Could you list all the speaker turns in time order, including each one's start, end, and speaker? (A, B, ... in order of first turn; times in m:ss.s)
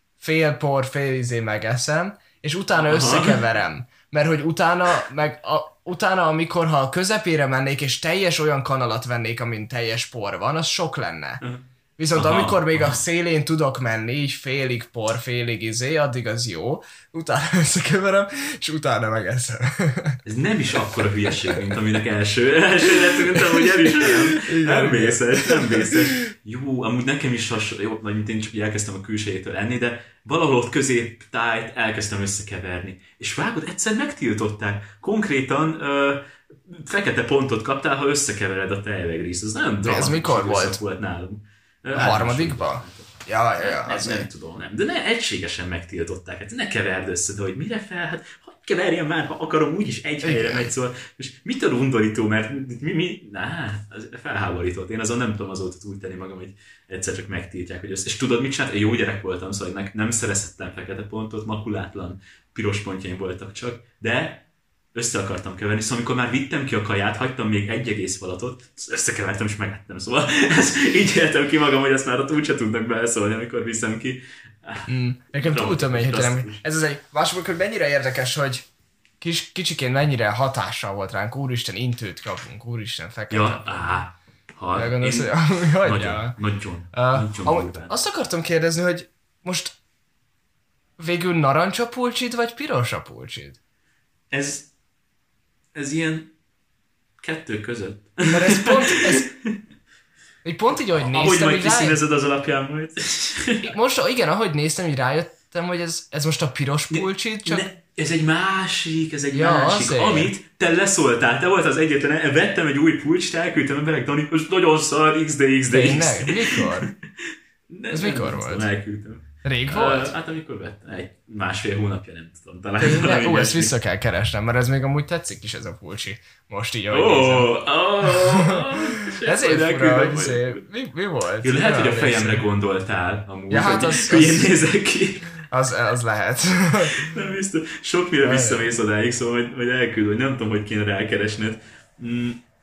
0:00.2-0:11.4 A
0:02.8-0:03.4 B
0:11.4-0:13.0 B
0:12.0-0:20.2 A
0:20.2-1:04.4 B
0:21.3-0:21.6 A
0:23.0-0:26.0 A
0:39.8-0:40.8 A
0:41.9-0:44.3 A
0:50.2-0:50.7 A
1:04.9-1:16.6 B
1:14.9-1:18.7 A
1:19.2-1:24.0 A
1:23.3-1:27.9 B
1:24.8-1:26.4 A
1:26.9-1:29.8 A
1:31.0-1:33.6 A
1:34.3-1:34.7 B
1:35.8-1:36.3 B
1:37.2-1:39.5 B
1:38.3-1:39.3 A
1:40.4-1:42.0 A
1:40.9-1:43.7 B
1:43.6-1:47.7 A
1:46.9-1:56.9 B
1:49.3-1:50.3 A
1:55.7-1:56.9 A
1:57.7-2:03.7 B
1:57.9-1:58.7 A
1:59.4-2:00.1 A
2:02.8-2:07.5 A
2:06.9-2:10.6 B
2:08.0-2:12.5 A
2:11.4-2:15.3 B
2:13.5-2:14.5 A
2:15.5-2:17.1 A
2:16.9-2:22.4 B
2:18.2-2:18.7 A